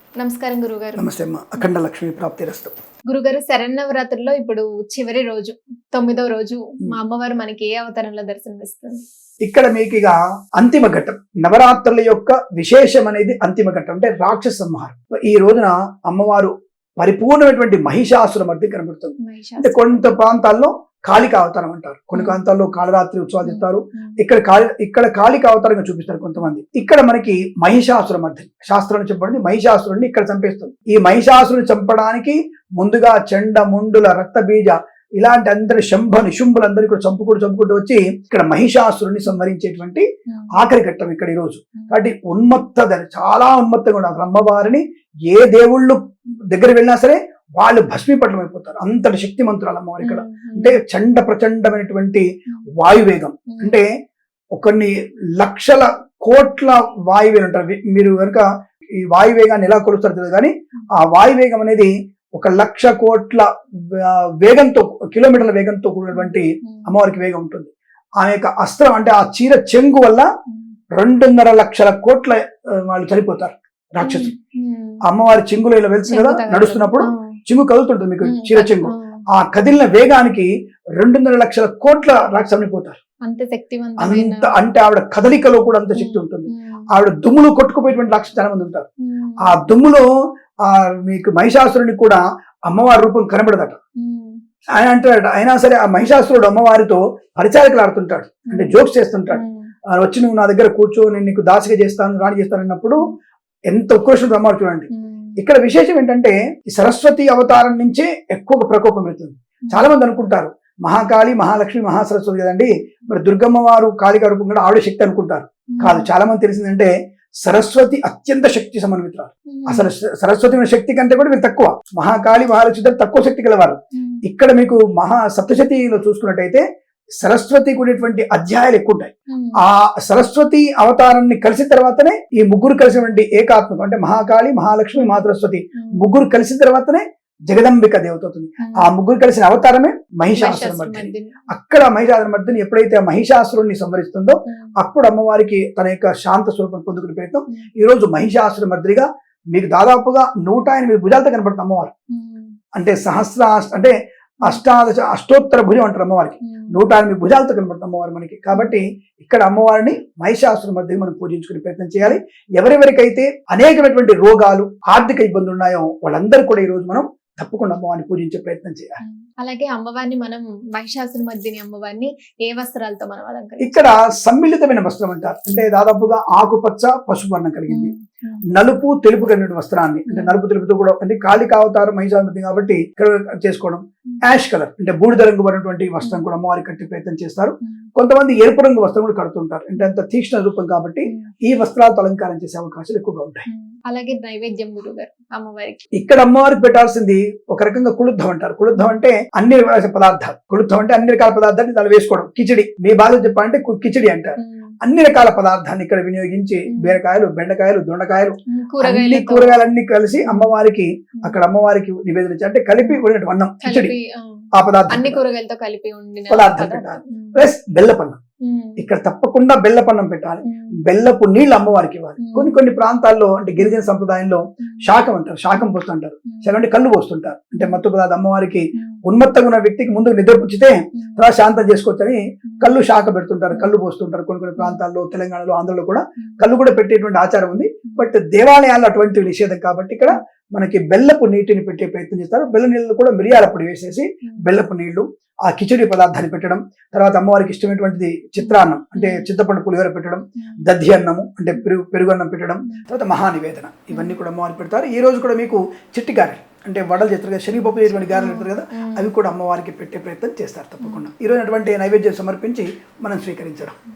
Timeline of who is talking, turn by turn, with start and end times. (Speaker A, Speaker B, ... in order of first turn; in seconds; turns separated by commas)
Speaker A: 0.2-1.2, Speaker B: 0.9-2.7, Speaker A: 3.1-9.0, Speaker B: 9.4-46.0, Speaker A: 19.2-20.1, Speaker A: 22.1-22.4, Speaker A: 23.4-24.1, Speaker B: 46.5-52.2, Speaker A: 50.0-50.8, Speaker B: 52.8-53.9, Speaker A: 53.5-53.8, Speaker B: 54.5-58.4, Speaker B: 59.1-70.3, Speaker A: 66.1-66.9, Speaker B: 70.9-74.3, Speaker A: 74.0-75.0, Speaker B: 75.1-83.0, Speaker A: 76.1-77.3, Speaker A: 78.2-79.2, Speaker A: 83.2-84.5, Speaker B: 84.0-88.9, Speaker A: 86.0-86.8, Speaker A: 89.1-89.5, Speaker B: 89.4-90.0, Speaker B: 90.6-93.8, Speaker A: 94.0-94.4, Speaker B: 94.8-99.4, Speaker A: 98.5-98.8, Speaker A: 99.3-99.7, Speaker B: 99.9-103.1, Speaker B: 103.7-104.9, Speaker A: 104.9-105.3, Speaker B: 105.4-116.9, Speaker A: 115.7-116.1, Speaker B: 117.4-126.6, Speaker A: 119.5-119.9, Speaker B: 127.2-151.9, Speaker A: 129.3-129.6, Speaker A: 134.9-136.0, Speaker A: 138.6-138.9, Speaker A: 140.3-141.4, Speaker A: 152.1-152.5, Speaker B: 152.8-169.0, Speaker A: 156.5-156.7, Speaker A: 158.5-158.8, Speaker A: 169.0-173.9, Speaker B: 173.6-177.9, Speaker A: 177.7-178.4, Speaker B: 178.5-193.5, Speaker A: 180.1-180.3, Speaker A: 193.5-195.8, Speaker B: 195.9-213.9, Speaker A: 204.4-204.7, Speaker A: 206.7-207.0, Speaker A: 208.5-209.7, Speaker A: 210.2-210.5, Speaker A: 213.6-217.4, Speaker B: 214.5-215.2, Speaker B: 216.3-218.2, Speaker A: 218.4-218.8, Speaker B: 218.8-263.7, Speaker A: 220.4-220.8, Speaker A: 222.2-222.6, Speaker A: 223.6-223.8, Speaker A: 224.6-224.9, Speaker A: 230.9-231.2, Speaker A: 232.5-232.8, Speaker A: 234.6-234.8, Speaker A: 248.4-249.3, Speaker A: 253.9-254.2, Speaker A: 257.6-259.1